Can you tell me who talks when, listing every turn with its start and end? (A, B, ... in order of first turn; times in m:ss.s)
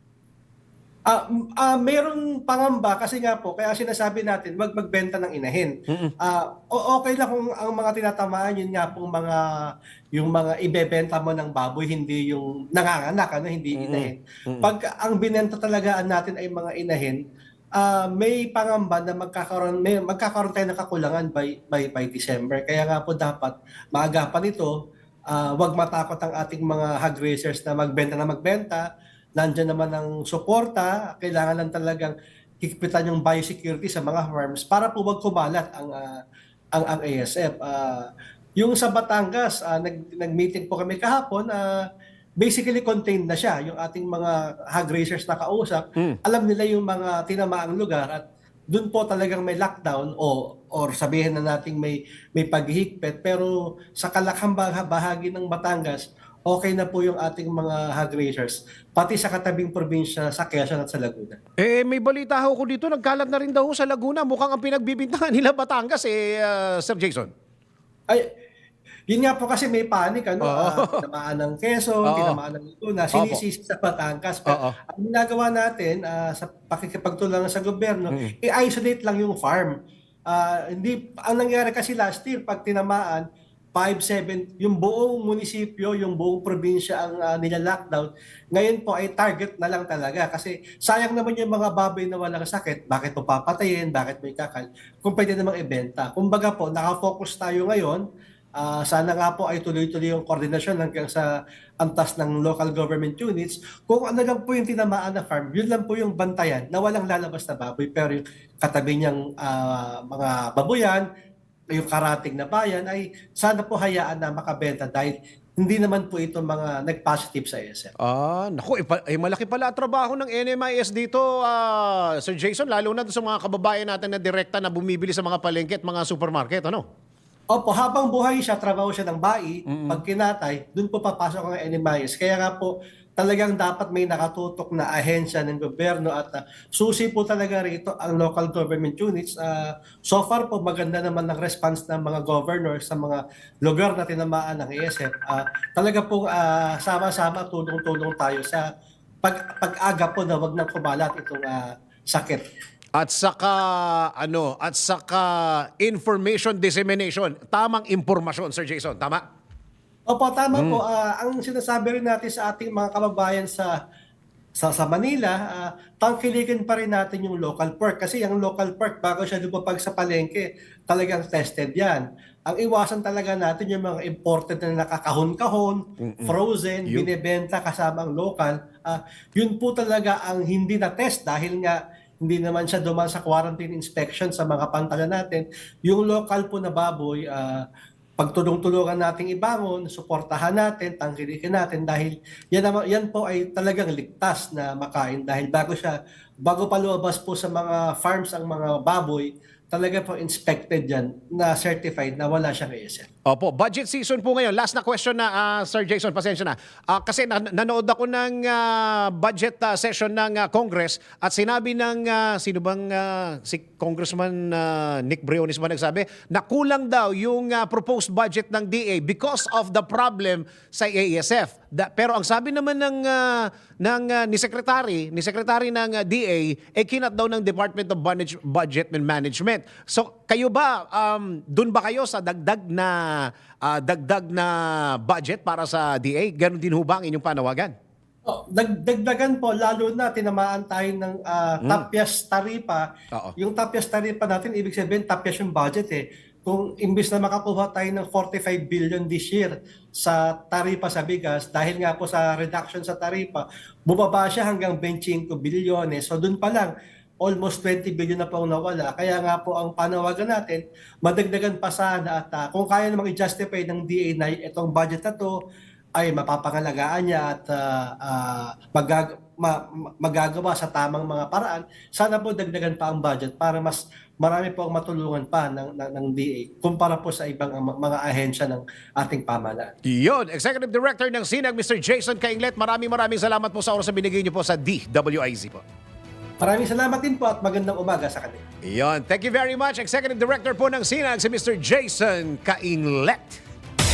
0:01.1-0:09.4 A
0:10.1-0:17.2 A
0:13.7-0:14.7 B
0:17.8-0:24.7 A
0:25.3-0:28.8 A
0:29.4-0:36.2 A
0:36.7-0:41.8 A
0:42.4-1:01.4 A
1:01.6-1:07.3 B
1:09.1-1:19.7 A
1:10.4-1:11.0 B
1:12.0-1:12.4 B
1:13.1-1:13.4 B
1:14.5-1:14.8 B
1:20.3-1:23.2 A
1:23.7-1:38.0 A
1:38.6-1:41.2 A
1:41.8-1:51.0 A
1:51.7-1:57.9 A
1:58.0-2:06.8 B
2:07.5-2:28.6 A
2:09.7-2:10.0 B
2:29.2-2:32.4 A
2:33.0-2:39.2 B
2:40.1-2:43.7 A
2:40.5-2:40.8 B
2:44.6-3:07.6 A
2:56.0-2:56.3 B
3:08.2-3:23.1 A
3:23.3-3:57.7 B
3:58.2-4:02.8 A
4:03.4-4:25.3 A
4:26.0-4:39.7 A
4:39.8-4:45.6 B
4:46.4-4:48.4 A
4:48.6-4:53.4 B